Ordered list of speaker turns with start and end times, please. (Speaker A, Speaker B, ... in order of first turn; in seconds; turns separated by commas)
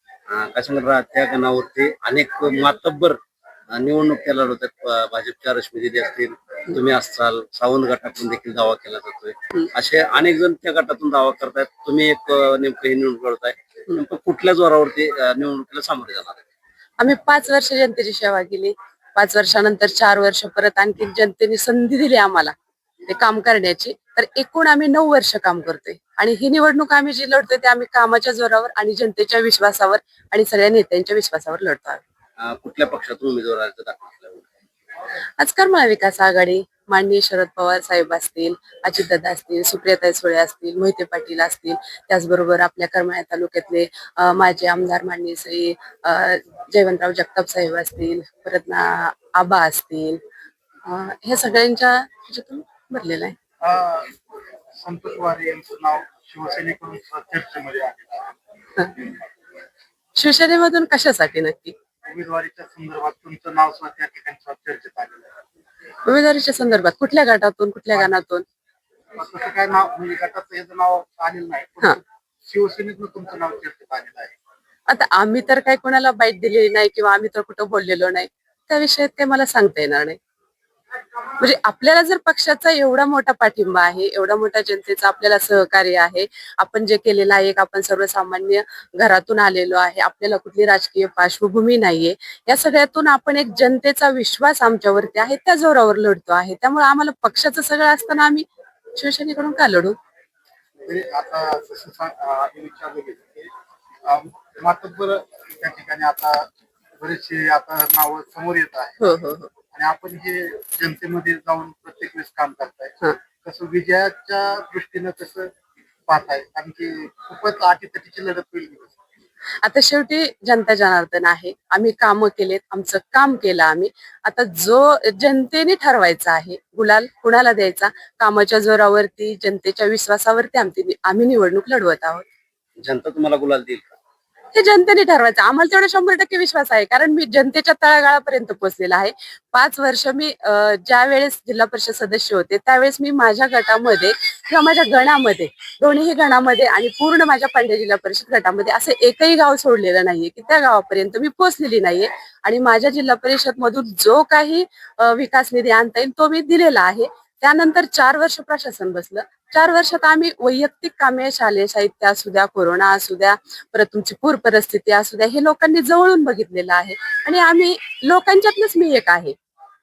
Speaker A: 0.3-3.2, Speaker A: 3.7-16.4, Speaker B: 17.0-22.5, Speaker B: 23.1-32.0, Speaker A: 32.4-34.5, Speaker B: 35.4-50.2, Speaker B: 50.8-53.4, Speaker C: 53.6-54.2, Speaker C: 54.7-58.4, Speaker B: 60.2-61.7, Speaker C: 62.0-65.4, Speaker B: 66.0-68.4, Speaker C: 69.1-74.3, Speaker B: 74.9-80.2, Speaker B: 81.4-100.0, Speaker C: 100.8-103.5, Speaker C: 104.0-109.2, Speaker B: 109.0-109.5, Speaker C: 109.7-115.5, Speaker C: 116.1-119.0, Speaker B: 119.6-132.2, Speaker A: 132.8-133.9, Speaker B: 134.5-169.3